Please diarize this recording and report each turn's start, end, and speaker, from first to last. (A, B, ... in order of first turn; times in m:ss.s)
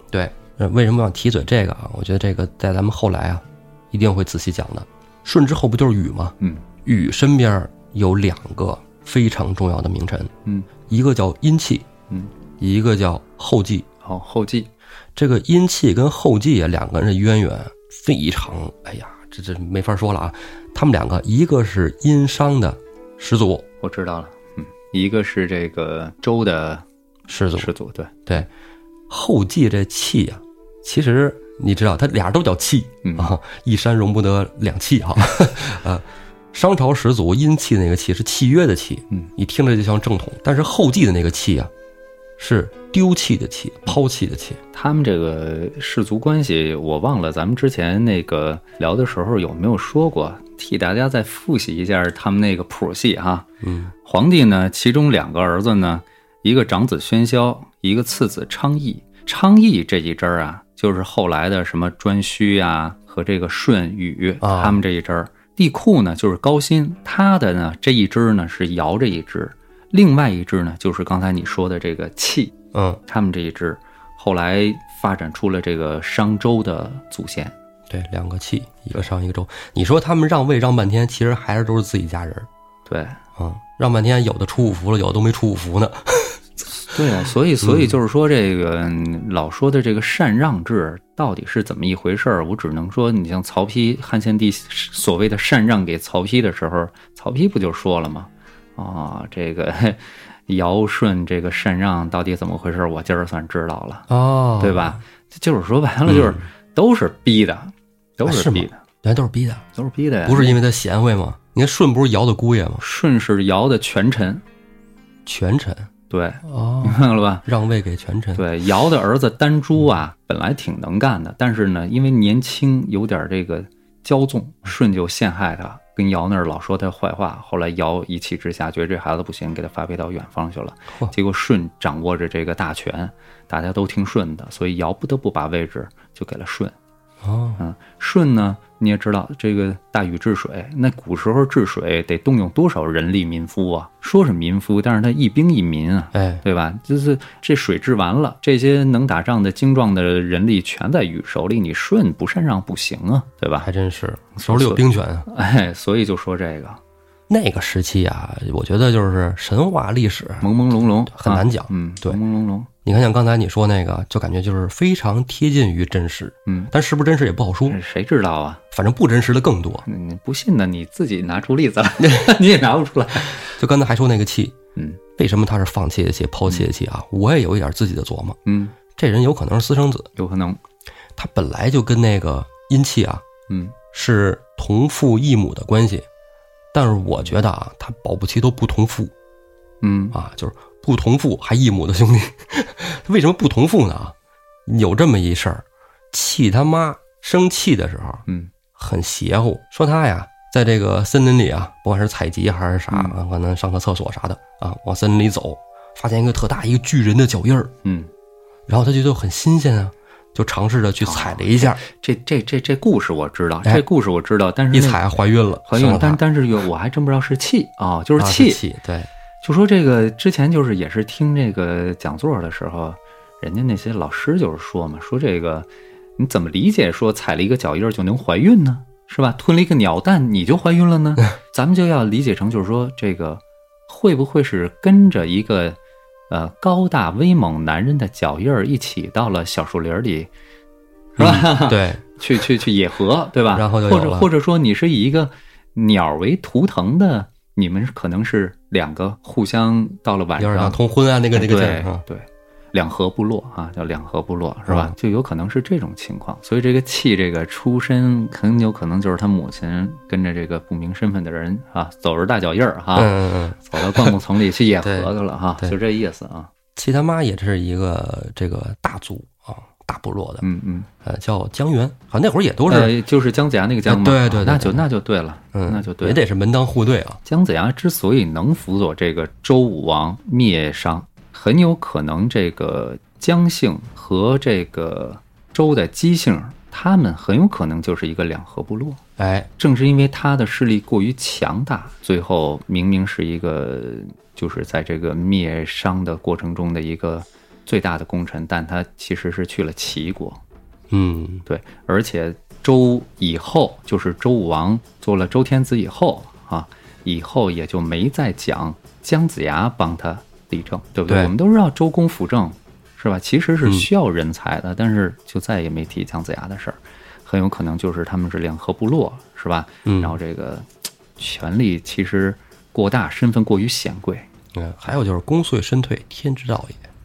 0:00.1-0:10.3 A
0:06.4-0:06.6 B
0:10.9-0:11.9 A
0:12.6-0:13.8 A
0:14.0-0:14.7 B
0:15.2-0:23.6 A
0:23.8-0:26.8 B
0:27.3-0:27.7 A
0:27.6-0:28.3 B
0:29.1-0:41.7 A
0:33.0-0:33.3 B
0:42.4-0:44.6 A
0:44.7-0:53.5 B
0:53.6-0:53.9 A
0:54.0-1:12.5 B
1:04.4-1:04.8 A
1:12.7-1:13.0 A
1:13.0-1:17.5 B
1:17.9-1:22.5 A
1:22.9-1:23.2 B
1:23.4-1:26.4 A
1:26.7-1:44.1 B
1:27.6-1:28.0 A
1:44.1-1:45.0 A
1:44.6-1:48.8 B
1:46.1-1:46.4 A
1:48.2-1:49.6 A
1:49.7-1:50.6 B
1:50.2-1:52.8 A
1:52.8-1:54.4 B
1:55.2-1:55.9 A
1:56.1-1:57.4 B
1:56.4-1:58.4 A
1:58.3-2:16.7 B
2:17.2-2:17.6 A
2:17.6-2:33.7 B
2:26.1-2:26.4 A
2:33.6-2:35.2 A
2:34.4-2:36.8 B
2:37.3-2:40.5 A
2:40.4-2:42.7 B
2:41.1-2:42.2 A
2:42.8-2:47.8 A
2:46.4-2:46.7 B
2:47.7-2:48.6 B
2:48.7-2:49.8 A
2:49.8-2:53.5 B
2:52.0-2:52.3 A
2:53.4-2:54.6 A
2:55.2-2:58.4 A
2:58.4-2:58.7 B
2:59.0-3:00.1 A
3:00.2-3:00.6 B
3:01.2-3:03.2 A
3:03.5-3:03.7 B
3:03.9-3:06.1 A
3:06.7-3:09.1 A
3:09.8-3:10.2 B
3:10.1-3:14.1 A
3:14.6-3:18.2 A
3:18.7-3:27.7 A
3:22.9-3:23.2 B
3:27.8-3:28.1 B
3:28.7-3:31.8 A
3:31.0-3:35.0 B
3:34.7-3:36.2 A
3:35.7-3:38.6 B
3:38.2-3:39.1 A
3:39.4-3:55.8 B
3:56.3-4:00.3 B
4:01.2-4:02.0 A
4:01.2-4:10.8 B
4:03.5-4:04.3 A
4:10.4-4:12.0 A
4:11.3-4:26.5 B
4:14.7-4:14.9 A
4:23.0-4:24.1 A
4:24.8-4:25.7 A
4:26.8-4:30.4 A
4:30.4-4:30.9 B
4:31.0-4:32.9 A
4:32.7-4:36.2 B
4:33.9-4:34.8 A
4:35.5-4:37.2 A
4:37.2-4:49.0 B
4:49.2-4:49.5 A
4:49.6-5:00.4 B
5:00.9-5:01.4 A
5:01.4-5:24.3 B
5:19.8-5:20.2 A
5:24.5-5:26.8 A